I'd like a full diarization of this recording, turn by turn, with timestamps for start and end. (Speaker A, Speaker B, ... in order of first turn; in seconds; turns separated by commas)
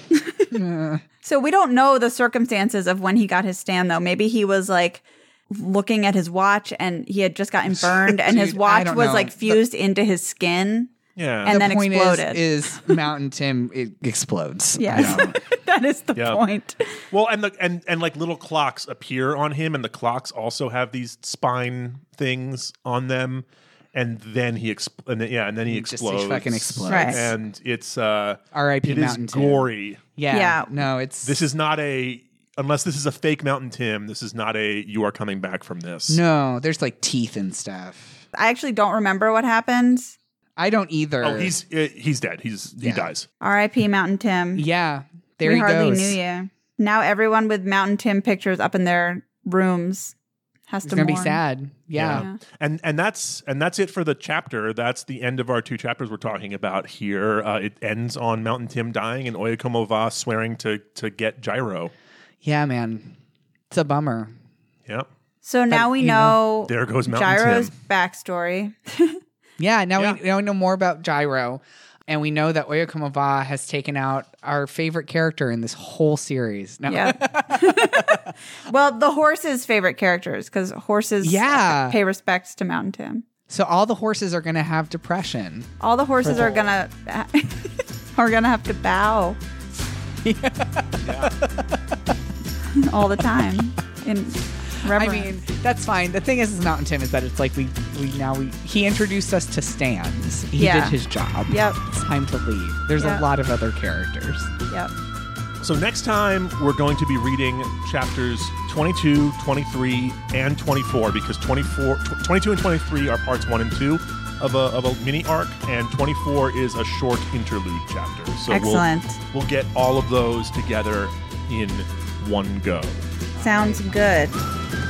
Speaker A: 0.5-1.0, Speaker B: 1.2-13.0, Speaker A: 8.2-9.6, Speaker C: 11.2-11.6, Speaker A: 11.4-15.4, Speaker B: 14.8-16.9, Speaker C: 16.1-16.4, Speaker C: 17.1-30.0, Speaker A: 25.7-27.3, Speaker B: 26.9-27.2, Speaker A: 28.5-31.4, Speaker B: 30.3-30.7, Speaker C: 31.2-36.2, Speaker A: 36.1-38.2, Speaker B: 38.3-40.1, Speaker A: 40.6-41.5, Speaker C: 41.2-43.2, Speaker A: 42.8-43.1, Speaker B: 43.4-44.6, Speaker A: 44.5-46.2, Speaker B: 45.4-50.1, Speaker B: 50.7-51.4, Speaker A: 50.8-52.2, Speaker C: 51.9-61.9, Speaker B: 52.1-52.4, Speaker A: 62.4-63.1, Speaker A: 63.7-64.3, Speaker B: 65.4-69.2, Speaker A: 65.7-66.4, Speaker C: 66.7-67.7, Speaker A: 69.6-78.3, Speaker B: 76.9-83.2, Speaker A: 81.2-82.0, Speaker A: 83.5-86.7, Speaker B: 85.8-89.4, Speaker A: 90.2-92.1, Speaker C: 91.0-91.3, Speaker B: 92.7-95.3, Speaker A: 94.8-104.5, Speaker B: 100.6-101.0, Speaker B: 101.5-101.8, Speaker B: 103.0-103.2, Speaker C: 105.6-123.0, Speaker B: 118.5-119.2, Speaker A: 123.4-123.8, Speaker B: 123.4-124.4